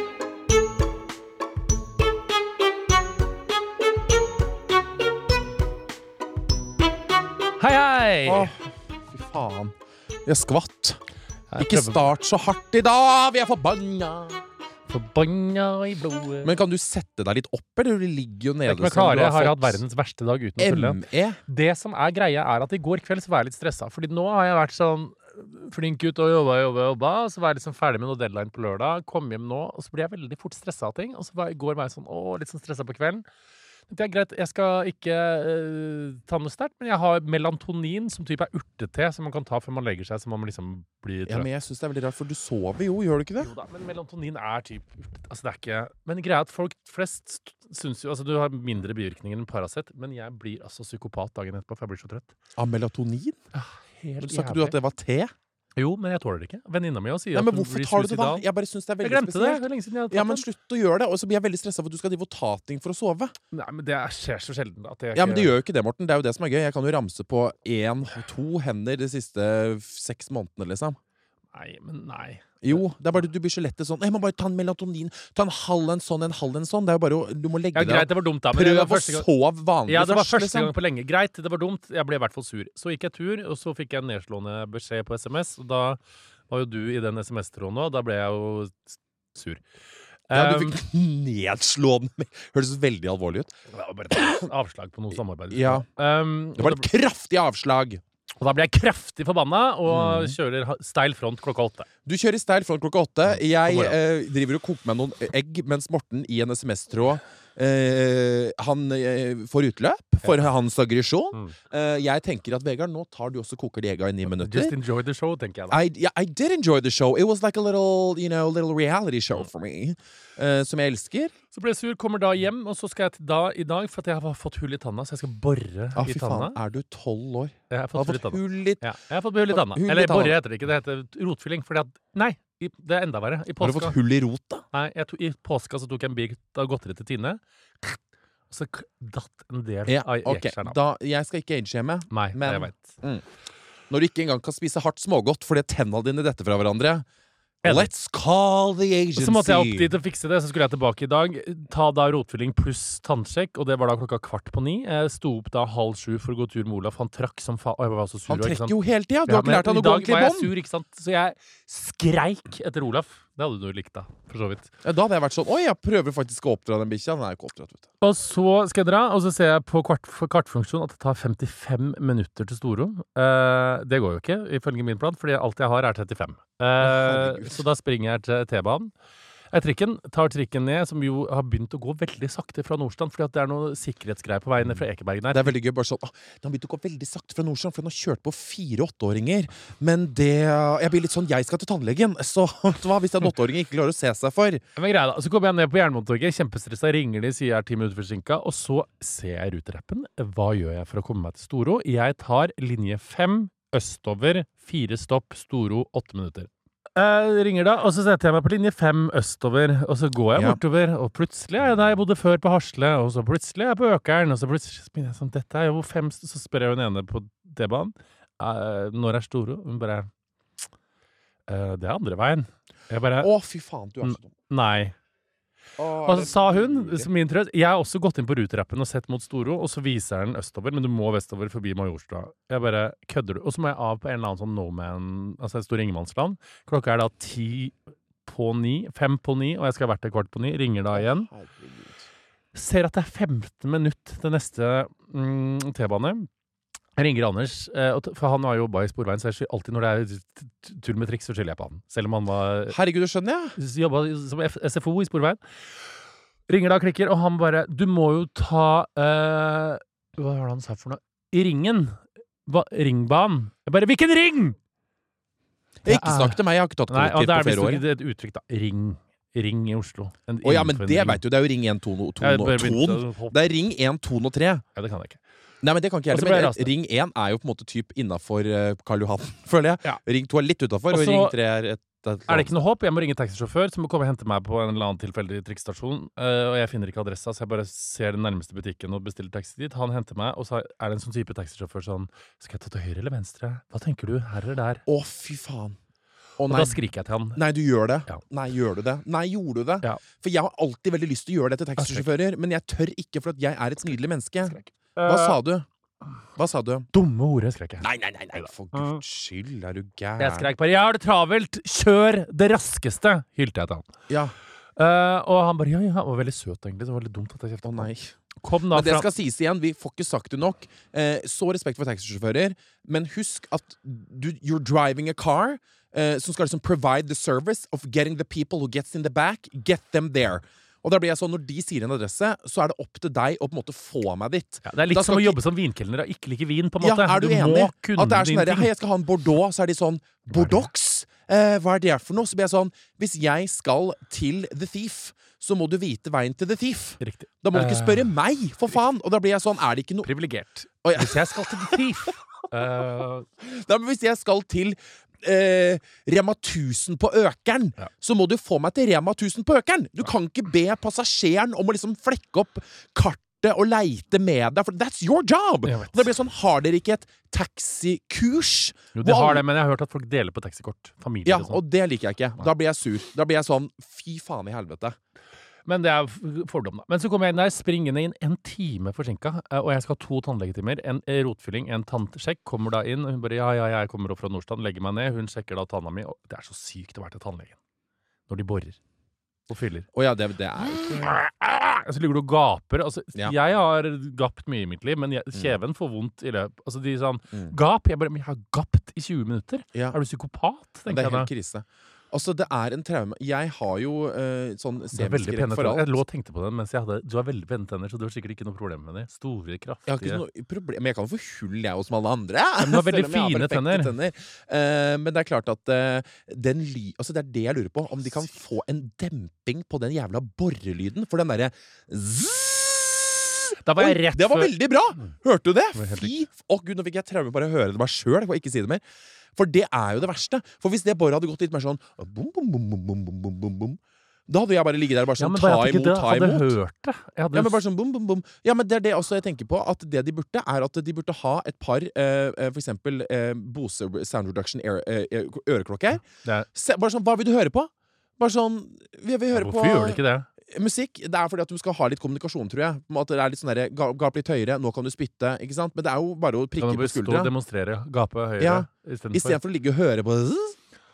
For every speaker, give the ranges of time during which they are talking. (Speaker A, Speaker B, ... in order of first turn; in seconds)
Speaker A: 7.6-8.5, 11.5-12.1, 14.9-16.5, 18.7-33.3, 33.9-41.5, 43.4-52.3, 53.5-54.8, 55.8-58.5, 59.0-60.5, 63.5-65.5, 71.5-72.8, 77.7-79.3, 79.9-89.6, 90.3-90.8, 93.7-96.9, 98.4-101.9, 103.3-104.0, 114.3-115.8, 121.5-126.6, 127.7-133.9, 134.7-140.8, 142.1-142.9, 147.6-147.9, 149.2-164.7, 168.0-178.9, 179.5-185.6, 194.8-220.1, 221.5-223.3, 224.0-224.9, 226.1-241.3, 242.5-246.3, 247.0-252.8, 253.6-255.4, 256.5-264.6, 265.9-271.2, 272.2-273.4, 274.8-275.2, 276.1-276.7, 280.9-281.4, 282.3-294.8, 296.5-297.4, 301.8-302.1, 304.4-305.4, 306.9-307.9, 308.4-309.0, 310.2-313.9, 314.8-317.9, 318.4-319.1, 334.7-338.7, 340.3-340.7, 347.0-348.1, 350.0-353.3, 365.6-366.1, 368.9-371.6, 375.7-387.6, 388.3-388.8, 389.5-389.9, 390.7-401.3, 404.9-410.2, 412.6-413.9, 423.6-425.1, 425.8-426.1, 435.2-437.6, 449.3-450.3, 456.6-459.4
Speaker B: 8.3-11.0, 11.6-14.4, 16.4-19.8, 20.6-21.4, 41.3-43.5, 52.6-53.4, 54.2-55.3, 57.3-63.4, 65.2-71.0, 72.6-80.7, 90.3-93.6, 94.1-94.5, 95.5-95.9, 96.6-98.0, 99.9-100.4, 102.1-114.8, 115.7-121.3, 126.0-128.9, 129.5-130.4, 133.6-134.6, 139.9-143.2, 143.9-147.1, 147.6-149.9, 158.3-160.5, 164.8-167.9, 176.8-177.6, 185.3-194.6, 223.2-224.3, 225.8-227.1, 240.9-242.1, 252.7-253.6, 265.8-267.9, 270.4-274.6, 275.6-282.5, 294.9-295.8, 296.4-296.8, 297.4-305.7, 306.4-306.9, 307.8-310.5, 314.1-314.3, 317.6-318.1, 318.7-335.4, 336.8-350.1, 350.8-352.1, 353.4-369.4, 371.2-375.0, 389.9-391.2, 400.9-406.0, 409.9-428.8, 429.4-436.6, 437.3-457.3, 458.4-460.6